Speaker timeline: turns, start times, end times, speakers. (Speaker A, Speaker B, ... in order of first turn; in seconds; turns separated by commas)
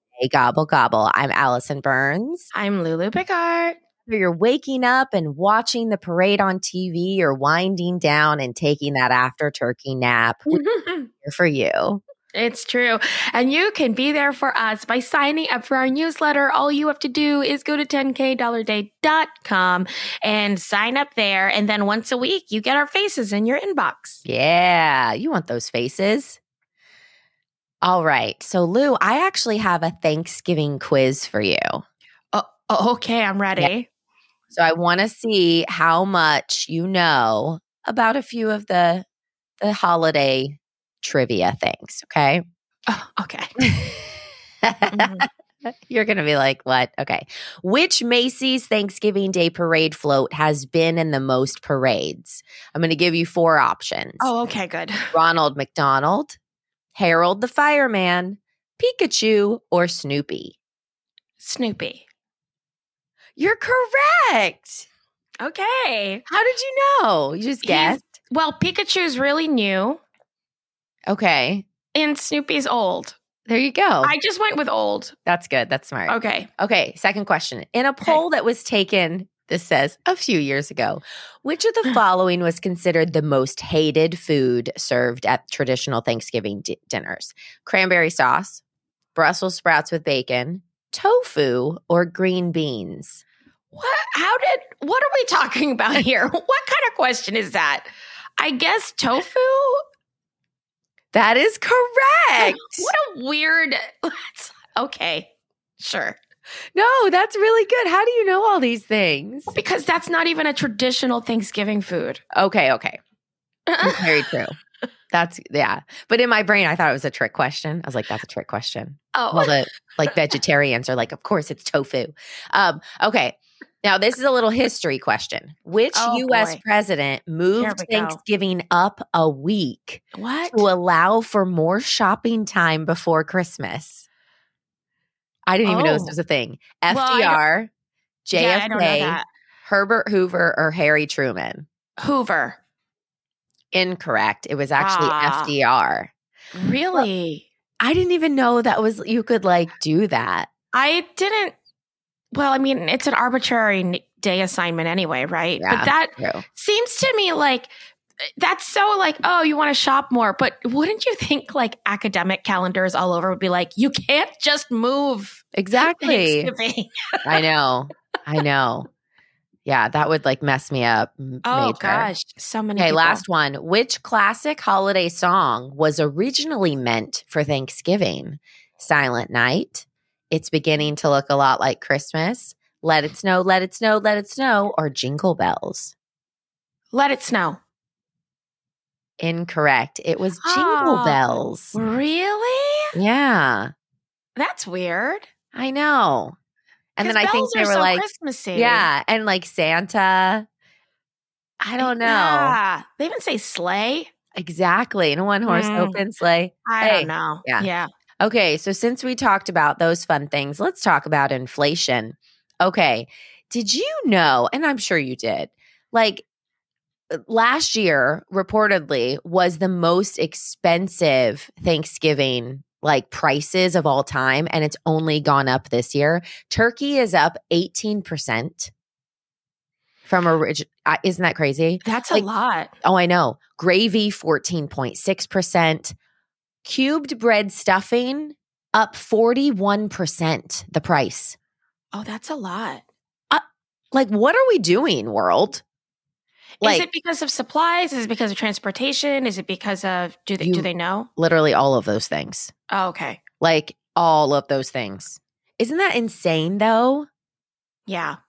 Speaker A: 0.2-2.5, Speaker B: 2.5-3.8, Speaker A: 4.1-10.6, Speaker B: 10.5-11.1, Speaker A: 11.2-12.0, Speaker B: 12.3-24.2, Speaker A: 24.2-26.4, Speaker A: 27.8-31.8, Speaker B: 32.3-33.9, Speaker A: 34.5-39.0, Speaker A: 39.6-42.4, Speaker B: 42.9-43.5, Speaker A: 43.6-45.2, Speaker B: 44.9-45.2, Speaker A: 45.9-54.4, Speaker B: 54.2-55.1, Speaker A: 55.1-56.4, Speaker A: 56.9-60.6, Speaker B: 61.4-62.0, Speaker A: 63.4-64.8, Speaker B: 65.4-66.2, Speaker A: 66.3-68.1, Speaker B: 67.6-70.0, Speaker A: 71.1-71.7, Speaker B: 71.9-73.2, Speaker A: 73.5-74.2, Speaker B: 74.0-75.1, Speaker A: 75.2-88.6, Speaker B: 76.1-76.5, Speaker A: 89.1-93.2, Speaker B: 93.7-99.8, Speaker A: 101.1-102.9, Speaker B: 102.4-106.2, Speaker A: 106.7-109.5, Speaker B: 109.5-112.2, Speaker A: 112.3-113.0, Speaker B: 113.7-114.3, Speaker A: 113.8-114.5, Speaker A: 115.1-134.1, Speaker B: 119.1-119.5, Speaker B: 125.9-126.6, Speaker B: 127.5-128.2, Speaker B: 130.1-130.7, Speaker A: 135.5-137.7, Speaker B: 135.6-136.2, Speaker B: 136.9-137.4, Speaker A: 138.2-141.7, Speaker B: 138.3-139.2, Speaker B: 142.0-142.6, Speaker A: 143.7-146.1, Speaker B: 144.8-145.5, Speaker B: 146.5-147.5, Speaker A: 147.8-150.5, Speaker B: 150.7-151.5, Speaker B: 152.3-157.7, Speaker A: 155.6-156.4, Speaker B: 158.4-167.4, Speaker A: 165.5-166.5, Speaker A: 167.2-168.9, Speaker A: 169.7-172.1, Speaker B: 171.4-173.2, Speaker A: 172.8-185.9, Speaker B: 186.9-187.6, Speaker A: 189.2-191.8, Speaker B: 190.4-192.9, Speaker A: 192.9-193.7, Speaker B: 194.3-195.3, Speaker A: 195.5-196.3, Speaker A: 197.0-200.4, Speaker B: 197.0-198.9, Speaker A: 201.6-202.6, Speaker B: 201.8-204.1, Speaker A: 204.3-207.7, Speaker B: 205.4-206.0, Speaker B: 206.6-207.9, Speaker A: 208.2-216.2, Speaker A: 217.1-228.7, Speaker A: 230.1-232.3, Speaker B: 231.8-232.7, Speaker A: 232.8-235.9, Speaker A: 236.6-241.3, Speaker B: 241.9-242.8, Speaker A: 243.3-245.6, Speaker B: 246.6-251.1, Speaker A: 246.6-246.9, Speaker A: 250.4-252.5, Speaker B: 252.7-253.2, Speaker A: 253.4-257.1, Speaker B: 257.9-258.2